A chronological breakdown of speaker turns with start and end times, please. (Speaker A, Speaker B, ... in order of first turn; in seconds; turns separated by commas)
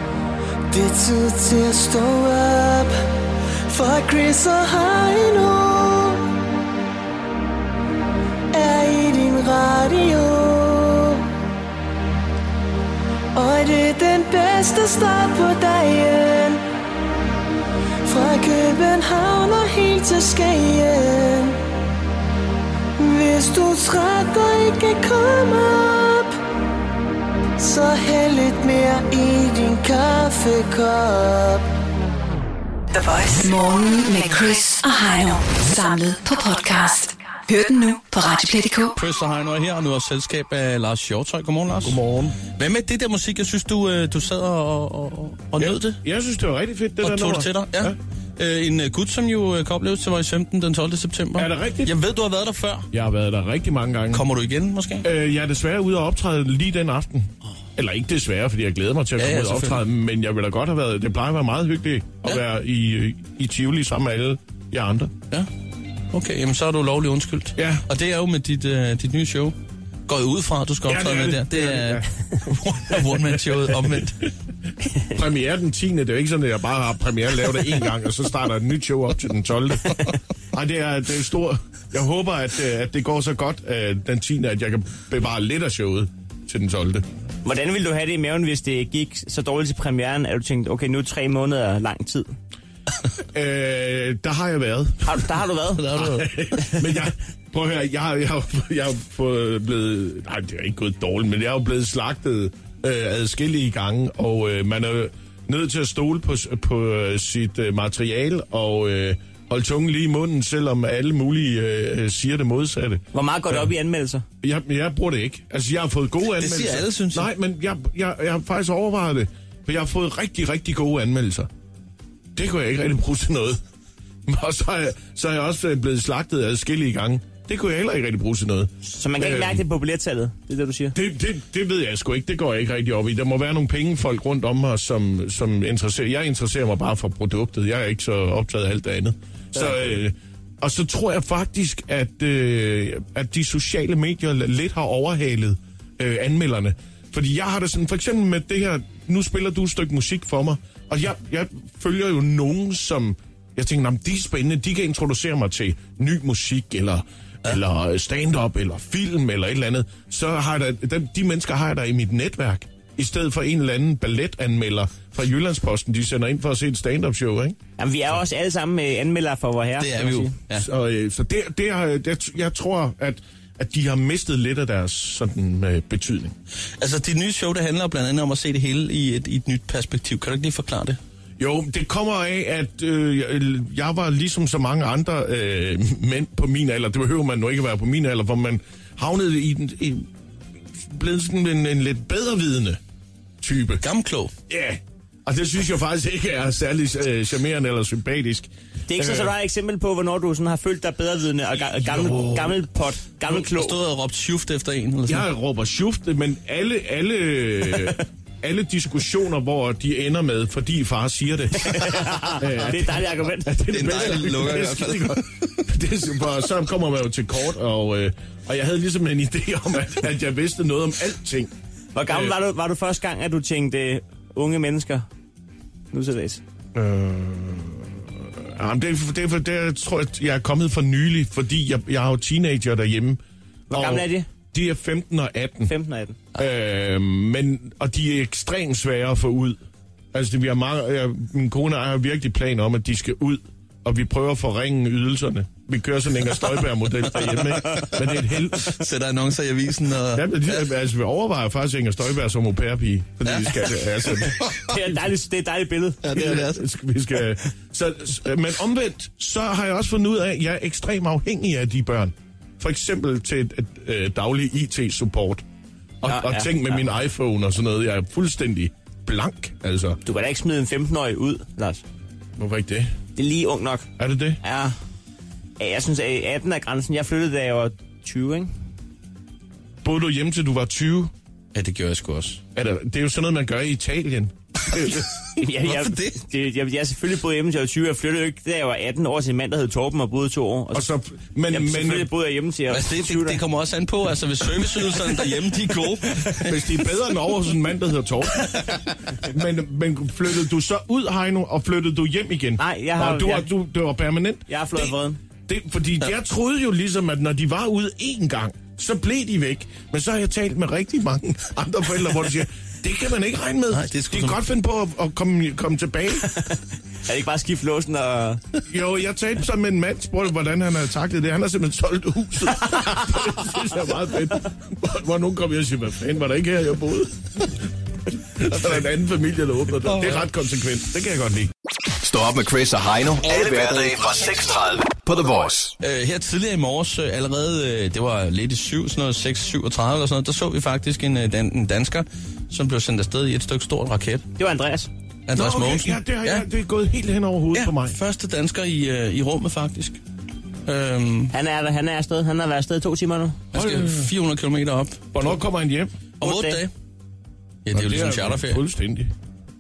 Speaker A: 0.7-3.0, Speaker A: 3.7-6.2, Speaker A: 8.5-11.2, Speaker A: 13.3-16.6, Speaker A: 18.1-21.6, Speaker A: 23.0-26.4, Speaker A: 27.6-31.6, Speaker B: 32.9-39.0, Speaker C: 38.9-42.0, Speaker D: 41.8-42.4, Speaker C: 42.5-46.0, Speaker D: 45.6-48.0, Speaker C: 47.0-52.9, Speaker D: 51.4-51.9, Speaker D: 52.9-54.2, Speaker C: 54.1-55.1, Speaker D: 55.0-65.1, Speaker C: 59.2-59.8, Speaker C: 66.1-69.5, Speaker D: 67.6-67.8, Speaker C: 70.1-74.3, Speaker D: 70.9-72.1, Speaker D: 73.0-73.9, Speaker D: 75.0-87.0, Speaker E: 87.4-92.3, Speaker D: 93.3-95.3, Speaker E: 95.0-96.1, Speaker C: 95.9-96.3, Speaker D: 95.9-113.7, Speaker E: 113.1-114.2, Speaker D: 114.4-121.5, Speaker C: 116.4-117.3, Speaker D: 122.4-123.6, Speaker D: 124.3-129.6, Speaker E: 128.9-130.9, Speaker D: 130.9-167.6, Speaker E: 167.8-170.3, Speaker C: 169.8-170.7, Speaker D: 170.5-176.3, Speaker C: 176.8-181.0, Speaker D: 181.4-190.1, Speaker D: 190.8-192.8, Speaker D: 193.4-193.8, Speaker C: 193.8-194.3, Speaker D: 194.5-199.3, Speaker E: 198.9-203.8, Speaker C: 202.0-202.5, Speaker D: 202.1-202.3, Speaker C: 203.3-205.3, Speaker D: 205.1-221.5, Speaker E: 211.6-213.6, Speaker C: 213.7-215.5, Speaker E: 221.9-225.1, Speaker D: 222.1-222.3, Speaker E: 225.9-226.4, Speaker D: 226.8-233.2, Speaker E: 233.7-234.3, Speaker D: 233.7-235.7, Speaker E: 235.7-236.2, Speaker D: 236.3-239.6, Speaker D: 240.1-248.8, Speaker C: 247.1-250.7, Speaker D: 250.1-254.4, Speaker C: 253.2-254.7, Speaker E: 254.7-256.3, Speaker C: 256.0-256.6, Speaker D: 256.1-265.4, Speaker D: 266.0-270.0, Speaker E: 266.0-266.8, Speaker E: 270.0-271.8, Speaker D: 272.4-272.9, Speaker E: 273.2-273.9, Speaker D: 274.0-274.4, Speaker E: 274.4-274.7, Speaker E: 275.6-278.5, Speaker D: 279.8-281.1, Speaker C: 281.5-282.4, Speaker D: 282.5-285.1, Speaker E: 285.4-290.9, Speaker C: 285.5-286.2, Speaker D: 290.7-292.1, Speaker E: 291.5-293.4, Speaker C: 292.7-296.6, Speaker D: 296.4-304.9, Speaker E: 302.6-303.5, Speaker E: 304.5-305.2, Speaker D: 305.5-316.3, Speaker C: 313.7-314.4, Speaker E: 316.3-318.4, Speaker D: 318.7-327.6, Speaker D: 328.2-331.5, Speaker C: 329.9-330.3, Speaker F: 332.0-335.7, Speaker C: 333.4-334.2, Speaker C: 335.8-344.2, Speaker E: 344.4-344.9, Speaker C: 345.3-346.5, Speaker D: 345.3-348.0, Speaker C: 347.5-350.0, Speaker C: 350.7-351.3, Speaker E: 351.3-353.4, Speaker C: 353.5-355.3, Speaker D: 353.5-354.1, Speaker D: 355.1-355.9, Speaker E: 356.2-356.6, Speaker C: 356.2-356.7, Speaker C: 357.6-358.6, Speaker D: 357.7-359.1